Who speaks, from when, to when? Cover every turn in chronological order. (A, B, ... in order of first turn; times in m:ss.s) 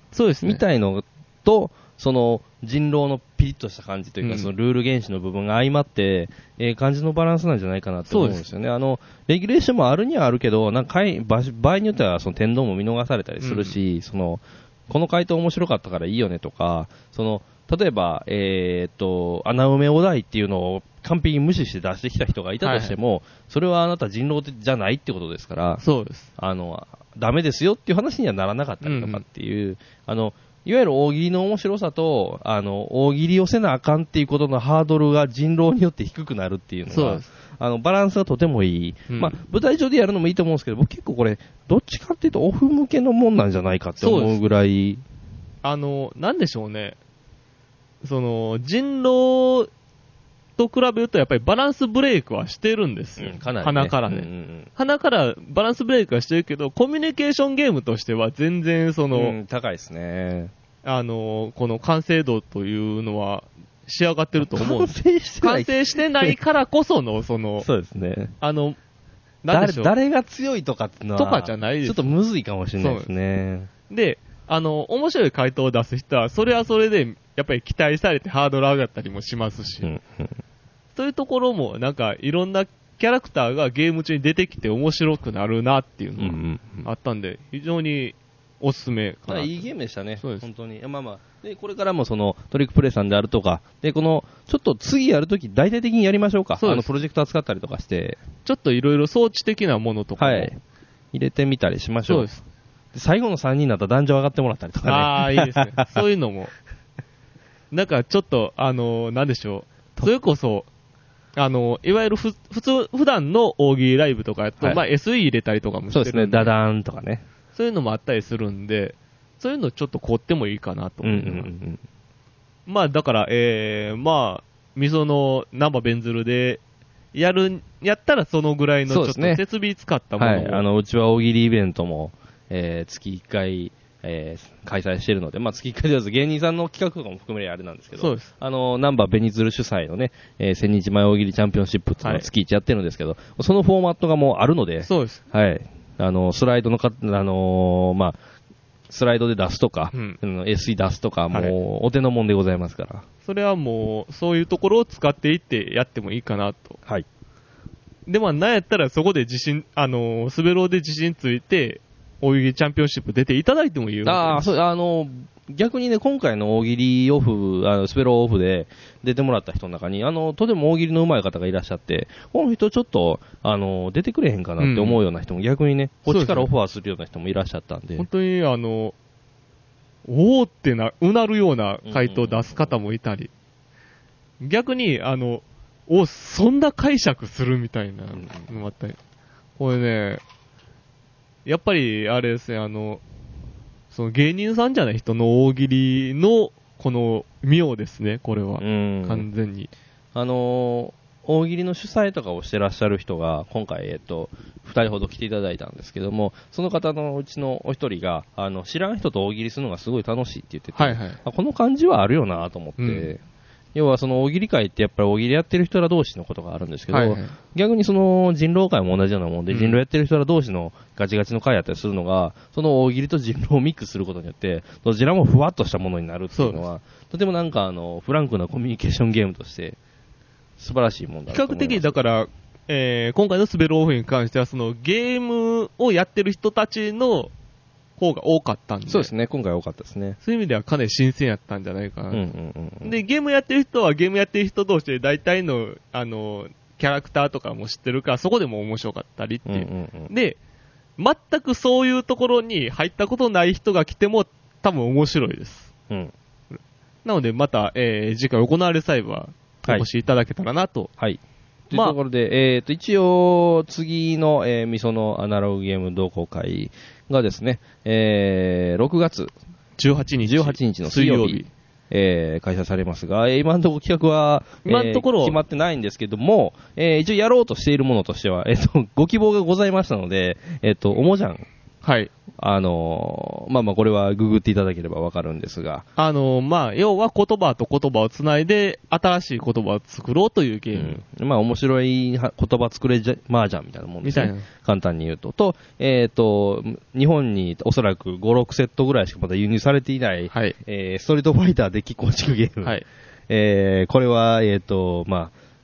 0:00.1-0:00.6 A
0:00.4-0:25.8 B
0:04.2-0:04.5 A
0:08.1-0:08.4 A
0:13.4-0:13.8 A
0:22.6-0:23.0 A
0:25.8-0:26.3 A
0:26.4-0:45.0 B
0:28.8-0:29.2 A
0:36.9-0:37.2 A
0:39.1-0:39.4 A
0:44.0-0:44.4 A
0:45.6-0:47.0 A
0:48.0-0:49.7 A
0:50.6-0:59.4 A
0:53.2-0:54.7 B
0:59.1-1:00.5 B
1:00.8-1:07.7 A
1:04.4-1:06.4 B
1:07.6-1:08.3 B
1:08.4-1:08.8 A
1:09.4-1:09.9 A
1:09.5-1:13.7 B
1:11.2-1:12.1 A
1:12.8-1:13.1 A
1:13.9-1:19.9 A
1:19.8-1:20.4 B
1:20.9-1:29.5 A
1:26.2-1:26.9 B
1:29.3-1:38.2 B
1:36.6-1:36.9 A
1:38.4-1:40.5 A
1:40.2-1:40.6 B
1:41.1-1:42.3 B
1:42.1-1:42.4 A
1:42.9-1:46.0 B
1:44.9-1:46.5 A
1:47.7-1:50.7 A
1:51.4-1:56.5 A
1:55.9-1:57.2 B
1:57.5-2:01.5 A
2:01.0-2:01.8 B
2:02.6-2:06.6 A
2:07.1-2:10.6 A
2:08.9-2:09.4 B
2:10.2-2:28.2 B
2:18.0-2:18.3 A
2:24.8-2:25.2 A
2:28.9-2:33.0 B
2:29.9-2:30.2 A
2:33.2-2:36.8 A
2:38.1-2:44.5 A
2:44.0-2:58.1 B
2:54.6-2:55.0 A
2:56.1-2:56.5 A
2:58.0-2:58.9 A
3:00.0-3:03.3 A
3:01.8-3:02.7 B
3:04.4-3:09.0 A
3:08.1-3:08.5 B
3:09.6-3:10.2 A
3:11.4-3:13.0 A
3:13.9-3:19.7 A
3:18.6-3:19.2 B
3:20.1-3:33.2 B
3:30.7-3:31.2 A
3:32.8-3:33.1 A
3:33.7-3:49.8 B
3:36.9-3:37.3 A
3:39.5-3:39.8 A
3:46.3-3:46.6 A
3:50.6-3:52.0 B
3:51.3-3:57.3 A
3:58.0-3:59.1 A
3:58.9-4:00.2 B
4:00.2-4:02.2 A
4:02.1-4:02.9 B
4:02.8-4:10.4 A
4:09.5-4:10.1 B
4:11.0-4:15.7 A
4:16.5-4:20.9 A
4:21.0-4:29.3 B
4:21.7-4:22.0 A
4:29.8-4:31.5 A
4:30.2-4:41.4 B
4:34.6-4:35.4 A
4:41.8-4:42.1 A
4:42.4-4:45.9 B
4:46.0-4:51.0 A
4:50.7-5:05.3 B
4:54.0-4:54.5 A